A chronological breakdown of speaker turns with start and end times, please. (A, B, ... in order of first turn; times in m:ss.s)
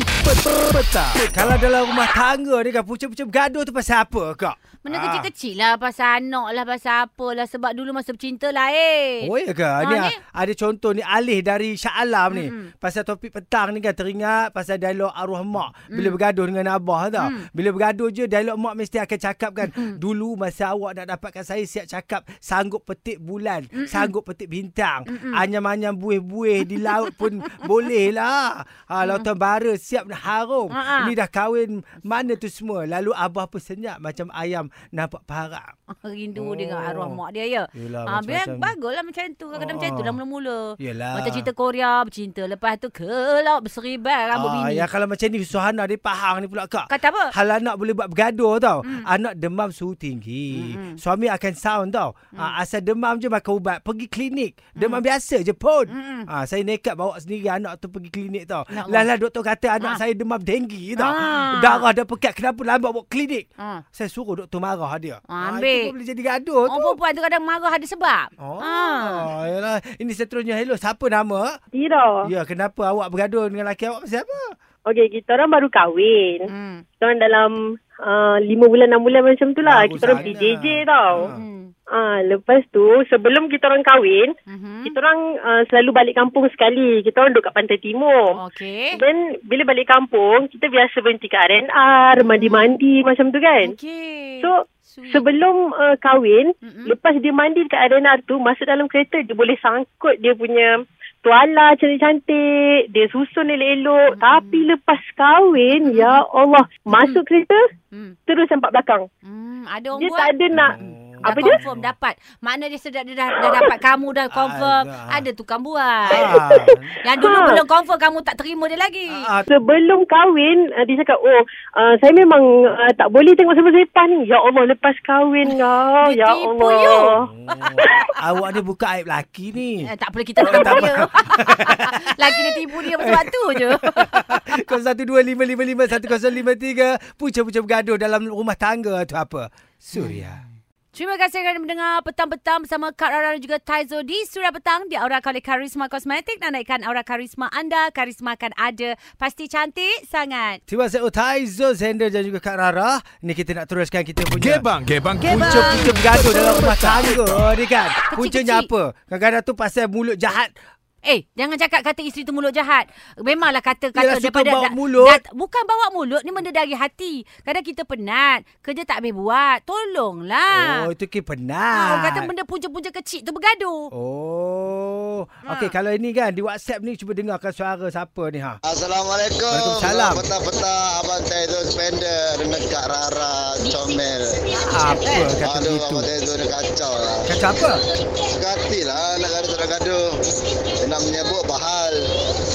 0:00.2-0:05.3 A
0:04.8-0:10.2 B
0:09.2-0:35.7 A
0:12.3-0:12.7 B
0:17.2-0:17.5 B
0:19.6-0:20.0 B
0:23.7-0:24.1 B
0:25.1-0:25.4 B
0:26.7-0:27.0 B
0:30.7-0:31.1 B
0:35.9-0:44.8 B
0:36.4-0:37.2 A
0:37.7-0:38.7 A
0:39.5-0:40.2 A
0:40.8-0:41.5 A
0:44.3-1:07.0 A
0:46.9-0:47.3 B
0:50.5-0:51.0 B
0:54.8-0:55.0 B
0:55.9-0:56.3 B
0:58.7-0:59.1 B
1:01.0-1:01.8 B
1:05.3-1:05.9 B
1:06.7-1:09.3 B
1:08.4-1:11.6 A
1:11.7-1:12.3 C
1:12.2-1:14.5 A
1:14.8-1:16.5 C
1:16.5-1:16.8 B
1:17.0-1:21.2 C
1:19.6-1:21.4 A
1:20.0-1:20.3 B
1:21.2-1:21.7 B
1:21.9-1:24.3 C
1:24.5-1:24.9 B
1:24.8-1:28.3 C
1:28.4-1:29.0 B
1:28.9-1:33.7 C
1:32.2-1:32.7 B
1:33.6-1:35.2 B
1:34.4-1:47.6 C
1:36.6-1:36.9 B
1:44.1-1:44.6 B
1:45.7-1:46.2 B
1:46.9-1:47.2 B
1:47.9-1:48.2 B
1:48.3-1:49.0 C
1:49.2-1:50.3 B
1:50.0-1:51.5 C
1:50.5-1:51.9 A
1:51.2-1:56.4 B
1:54.3-1:55.2 A
1:56.1-1:56.9 A
1:56.3-1:57.6 C
1:57.0-1:59.2 B
1:59.1-1:59.5 A
1:59.5-2:08.0 C
2:06.0-2:07.1 B
2:07.2-2:20.4 A
2:09.8-2:14.6 B
2:20.9-2:30.6 B
2:30.7-2:34.7 A
2:34.4-2:37.3 D
2:35.2-2:40.5 A
2:35.3-2:36.1 B
2:38.1-2:38.7 B
2:41.0-2:50.9 B
2:43.9-2:45.2 A
2:50.5-2:52.3 A
2:51.7-2:53.9 B
2:53.9-2:58.6 A
2:55.5-2:55.7 B
2:58.7-3:04.4 E
2:59.5-3:00.3 A
3:04.6-3:06.1 A
3:05.1-3:07.4 E
3:07.3-3:07.8 A
3:08.3-3:10.2 E
3:10.8-3:12.0 E